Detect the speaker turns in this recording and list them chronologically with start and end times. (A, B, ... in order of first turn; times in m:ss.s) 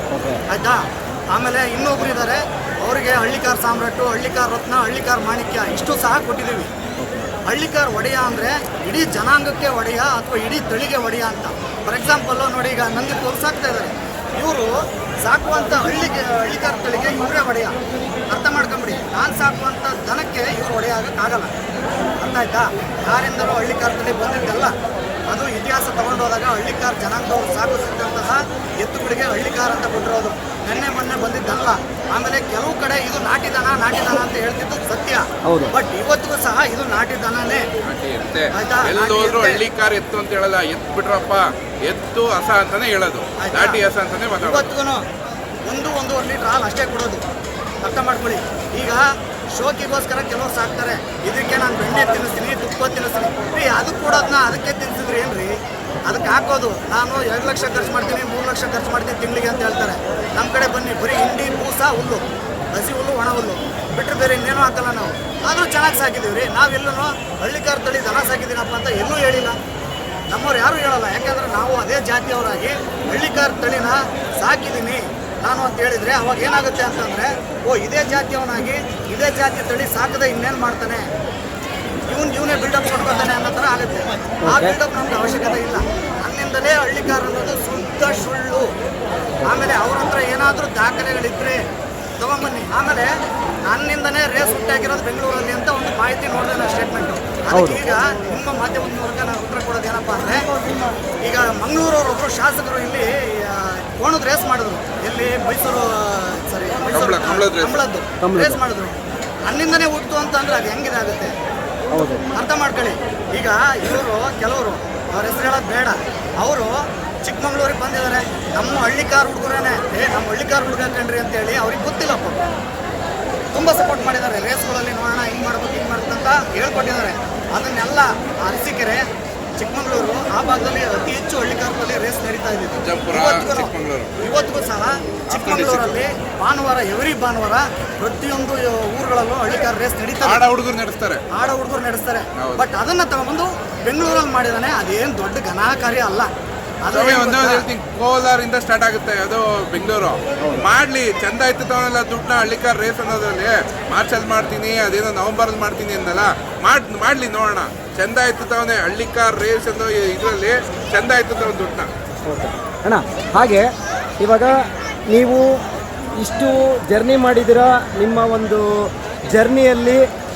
0:00.1-0:00.4 A
0:00.5-0:06.7 B
0:07.0-0:07.3 A
0:07.4-0:17.8 B
0:18.3-0:21.5 B
0:22.2-0:24.7 B
0:25.3-0:37.6 B
0:35.4-0:35.7 A
0:37.8-0:44.7 C
0:38.5-0:39.6 B
0:43.4-0:43.8 B
0:44.4-0:45.0 B
0:45.6-0:47.2 B
0:47.8-1:09.6 B
1:10.3-1:21.1 B
1:22.1-1:28.7 B
1:24.4-1:24.7 A
1:29.4-1:31.6 B
1:32.2-1:33.2 B
1:33.7-1:40.4 B
1:37.5-1:37.8 A
1:41.2-1:51.3 B
1:46.9-1:47.8 C
1:48.2-1:48.6 A
1:51.9-1:52.2 A
1:52.3-2:02.4 B
2:03.5-2:20.4 B
2:12.8-2:14.2 C
2:15.3-2:16.0 C
2:20.2-2:21.2 C
2:21.3-2:26.3 B
2:22.4-2:22.7 C
2:26.8-2:27.7 B
2:26.9-2:41.9 C
2:30.4-2:30.6 A
2:42.2-2:43.6 A
2:44.2-2:44.5 A
2:45.1-2:45.4 A
2:46.2-2:48.6 A
2:49.3-2:50.0 A